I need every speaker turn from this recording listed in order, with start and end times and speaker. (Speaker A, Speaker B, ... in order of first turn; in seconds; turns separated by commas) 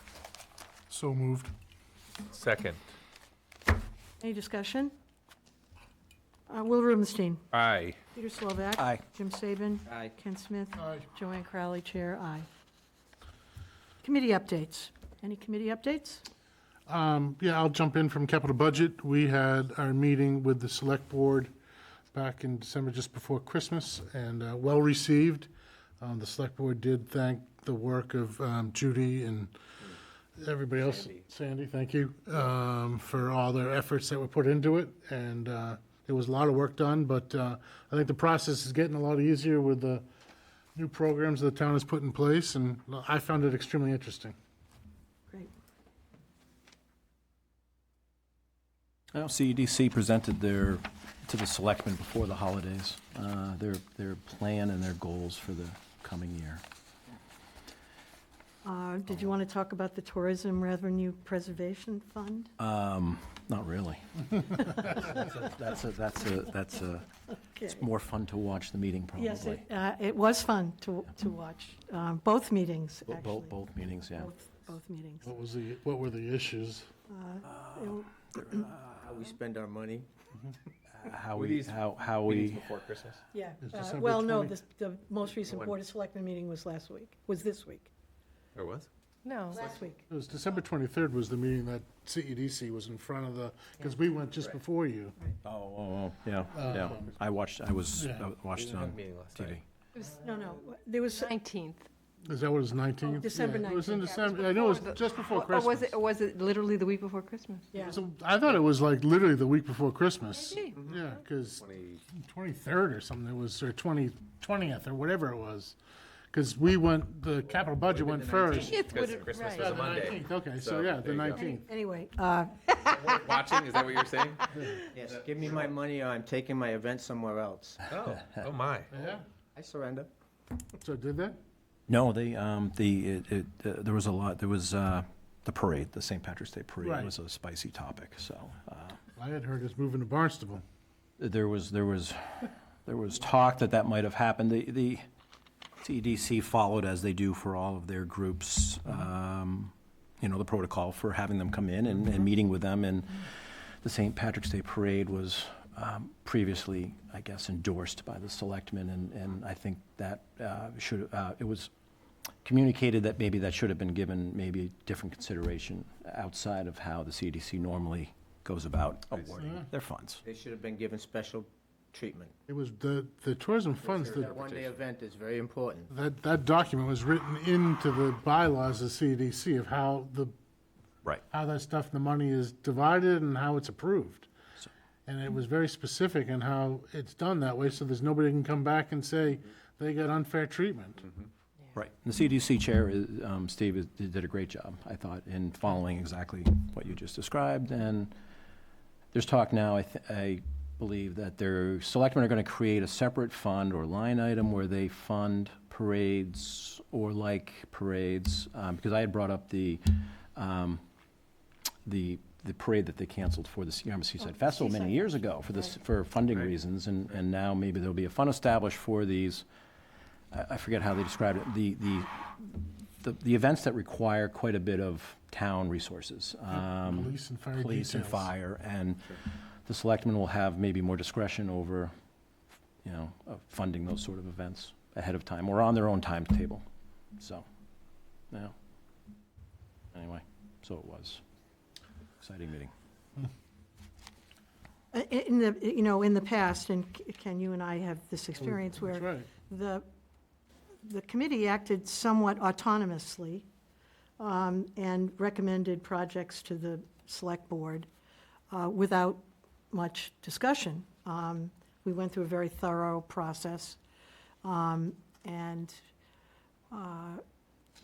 Speaker A: 0.9-1.5, Speaker B: 2.3-2.8, Speaker C: 4.2-4.9, Speaker C: 6.5-7.4, Speaker B: 7.5-8.0, Speaker C: 8.1-12.5, Speaker D: 8.8-9.0, Speaker A: 10.8-11.1, Speaker C: 14.0-16.2, Speaker A: 16.9-21.5, Speaker A: 22.1-29.5, Speaker A: 30.4-40.1, Speaker B: 30.8-31.2, Speaker A: 40.8-44.4, Speaker D: 49.1-56.6, Speaker C: 58.6-62.5, Speaker D: 62.6-67.1, Speaker C: 67.5-67.8, Speaker D: 67.7-69.6, Speaker C: 69.2-73.5, Speaker D: 73.1-74.3, Speaker C: 74.1-75.3, Speaker A: 75.2-76.9, Speaker C: 77.1-78.7, Speaker D: 77.7-79.1, Speaker E: 79.0-80.1, Speaker D: 80.9-82.8, Speaker B: 82.2-83.2, Speaker C: 83.3-87.9, Speaker A: 83.6-84.6, Speaker B: 88.6-88.9, Speaker F: 89.2-89.6, Speaker C: 89.5-90.0, Speaker A: 90.1-95.2, Speaker D: 95.4-99.6, Speaker A: 96.5-97.0, Speaker A: 98.0-98.3, Speaker B: 98.6-99.6, Speaker C: 100.0-101.3, Speaker F: 101.1-101.9, Speaker A: 102.2-106.0, Speaker C: 103.0-104.3, Speaker F: 103.9-107.7, Speaker C: 107.7-108.0, Speaker A: 107.8-115.8, Speaker F: 110.5-110.8, Speaker B: 111.6-112.0, Speaker A: 116.3-118.8, Speaker B: 117.9-121.4, Speaker E: 118.1-118.9, Speaker F: 118.5-120.0, Speaker A: 119.5-121.7, Speaker C: 121.4-123.2, Speaker B: 123.0-125.7, Speaker A: 124.5-124.8, Speaker E: 124.9-127.8, Speaker B: 127.9-128.9, Speaker A: 128.9-129.2, Speaker E: 129.6-130.1, Speaker A: 130.8-131.4, Speaker D: 131.9-139.0, Speaker A: 136.8-137.1, Speaker A: 139.2-140.6, Speaker D: 141.2-145.0, Speaker D: 145.8-161.7, Speaker D: 162.4-170.2, Speaker E: 170.2-172.3, Speaker A: 172.5-174.4, Speaker E: 173.8-175.9, Speaker A: 175.9-180.3, Speaker A: 181.3-184.3, Speaker A: 185.1-191.1, Speaker D: 191.7-198.1, Speaker D: 199.1-210.8, Speaker D: 211.9-219.4, Speaker D: 220.3-231.9, Speaker A: 226.5-228.3, Speaker D: 232.8-236.6, Speaker D: 237.2-237.4, Speaker D: 239.9-241.2, Speaker D: 242.2-242.7, Speaker C: 244.9-249.9, Speaker A: 248.4-249.3, Speaker C: 250.8-253.5, Speaker C: 254.2-257.9, Speaker C: 258.5-263.8, Speaker C: 264.4-265.8, Speaker C: 266.7-267.2